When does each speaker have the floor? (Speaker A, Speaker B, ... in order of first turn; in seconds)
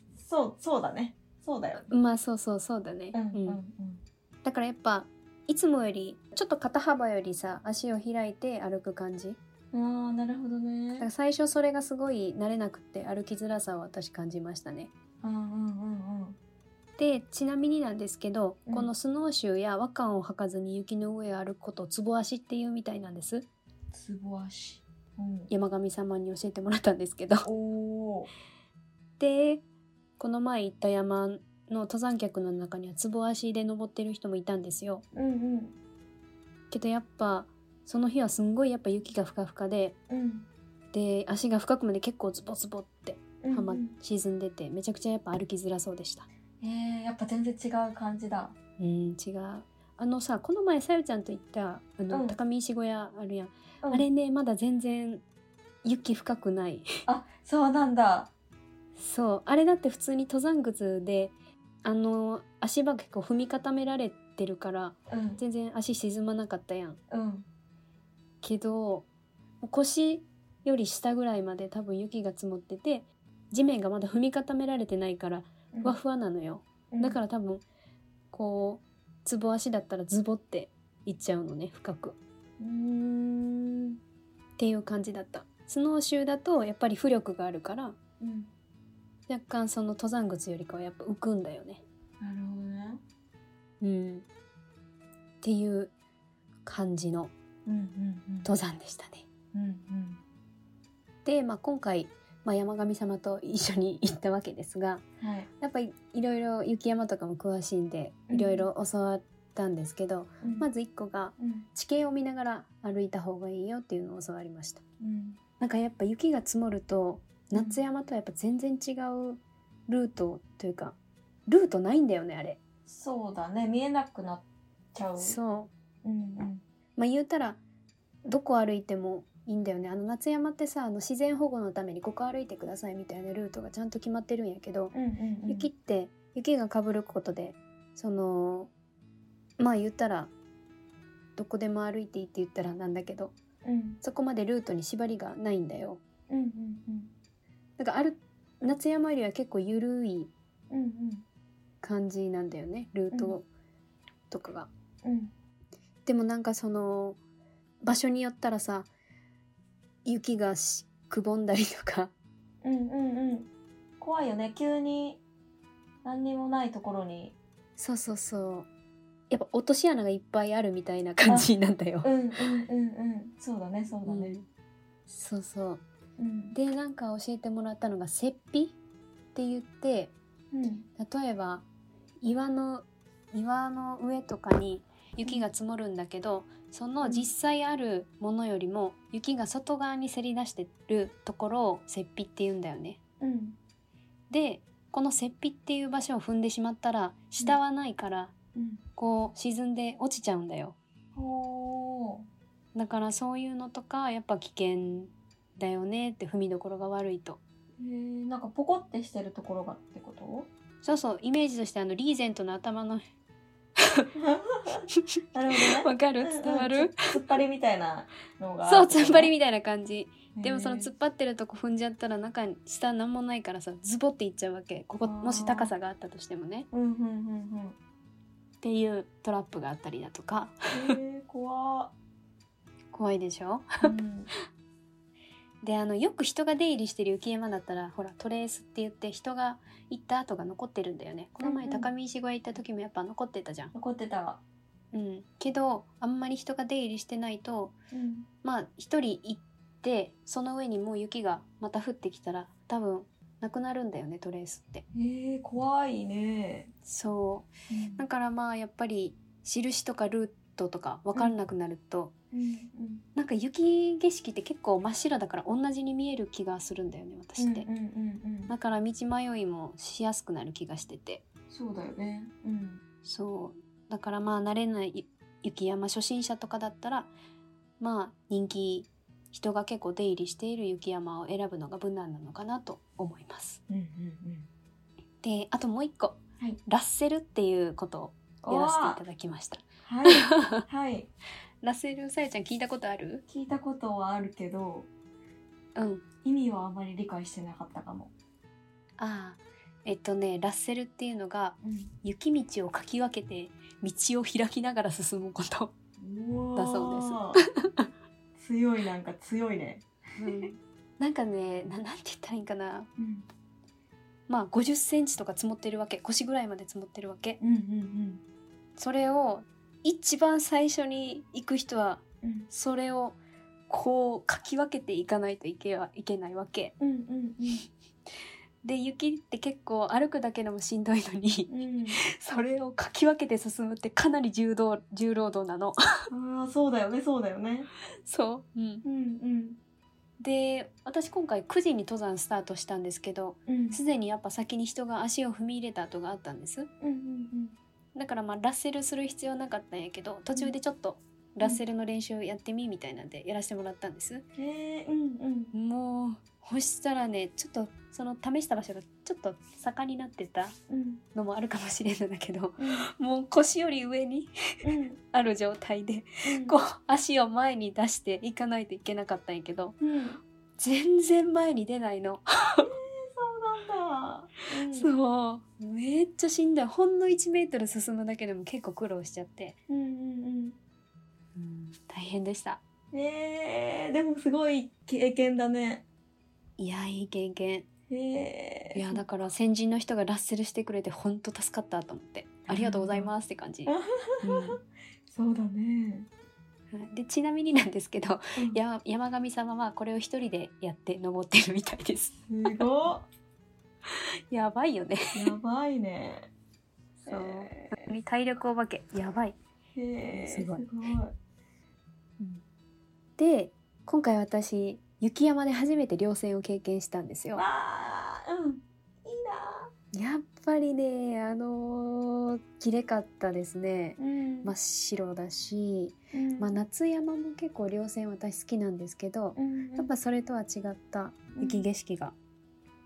Speaker A: 0.1-1.9, 3.1-4.0, 9.7-11.1, 15.2-16.4, 23.9-25.5, 27.4-28.3, 35.1-35.8, 40.1-40.5, 43.4-43.9, 46.6-48.5, 52.1-52.4, 57.1-58.3, 65.1-65.4, 67.1-67.5, 75.7-76.0, 76.9-77.2, 82.6-84.0, 88.2-88.5, 92.2-93.0, 97.7-98.5, 99.5-100.2, 105.2-105.5, 108.3-108.7, 110.4-110.7, 111.4-111.7, 115.0-115.4, 117.5-117.8, 122.8-125.4, 126.0-126.6, 134.9-135.7, 143.6-144.0, 146.3-147.1, 150.7-151.2, 155.0-155.3, 162.6-163.5, 164.0-165.2, 166.0-167.3, 172.0-174.3, 176.2-176.5, 180.5-180.8, 187.0-187.3, 193.2-193.6, 198.5-198.8, 201.1-202.3, 207.8-210.5, 214.1-219.3, 220.3-220.9, 225.0-225.7, 226.7-227.8, 230.7-231.9, 233.8-234.3, 241.4-241.9, 243.7-244.4, 247.9-248.3, 254.9-256.7, 257.7-258.0, 262.3-263.0, 267.4-268.5, 271.5-272.8, 283.7-284.5, 288.4-289.0, 289.8-291.1, 293.3-294.9, 296.2-298.1, 301.6-301.9, 306.0-307.4, 308.4-310.5, 313.0-313.2, 317.4-318.2, 322.2-322.5, 326.8-327.6, 331.5-332.0, 336.1-337.7, 338.8-339.6, 343.5-343.8, 346.8-347.6, 354.4-355.5, 360.7-361.0, 362.6-362.9, 364.6-365.0, 366.2-366.6, 369.8-370.2, 372.6-374.9, 379.7-380.6, 382.9-385.8, 387.9-389.0, 392.5-393.1, 393.6-396.1, 402.3-403.1, 405.1-406.3, 407.1-407.7, 409.7-411.1, 417.3-419.7, 424.0-424.5, 426.1-426.5, 429.4-429.9, 431.4-431.6
Speaker B: 1.9-3.6, 4.4-9.4, 11.0-14.9, 17.0-23.5, 25.5-27.5, 29.2-29.6, 30.2-35.0, 36.7-40.0, 40.9-46.3, 48.8-55.2, 55.8-56.9, 59.0-67.0, 68.4-69.1, 69.6-77.6, 78.3-82.2, 84.6-88.0, 89.3-91.8, 93.8-94.2, 95.4-95.9, 96.6-97.3, 98.4-99.2, 101.2-105.0, 105.6-114.8, 115.6-121.0, 121.5-122.6, 125.2-125.7, 127.0-127.6, 128.2-134.9, 135.5-138.7, 139.6-140.3, 141.3-143.3, 144.0-146.0, 147.8-150.3, 151.8-153.4, 154.3-154.7, 156.1-157.2, 157.8-158.9, 160.1-162.1, 167.8-168.7, 169.3-172.1, 174.1-174.4, 175.1-175.8, 176.5-178.8, 179.3-180.1, 180.9-181.6, 182.2-193.0, 194.3-198.3, 199.0-200.8, 202.7-207.4, 210.8-213.0, 213.8-214.1, 214.9-217.1, 218.6-226.7, 228.6-231.0, 232.9-233.9, 235.6-243.7, 244.9-247.7, 248.4-254.8, 256.9-262.1, 263.1-267.7, 268.5-271.2, 273.0-277.1, 277.8-283.6, 285.2-290.6, 291.6-293.2, 295.8-296.0, 299.0-305.7, 306.6-307.9, 310.2-312.9, 314.3-317.4, 318.8-323.2, 323.7-326.7, 328.6-336.1, 338.0-338.8, 340.2-346.7, 347.9-354.2, 355.5-360.6, 361.1-364.3, 365.1-369.8, 370.6-372.7, 374.7-379.6, 381.4-382.6, 386.6-387.6, 388.7-394.6, 396.7-402.7, 404.3-405.3, 407.1-409.4, 410.1-410.6, 413.2-417.4, 419.9-432.1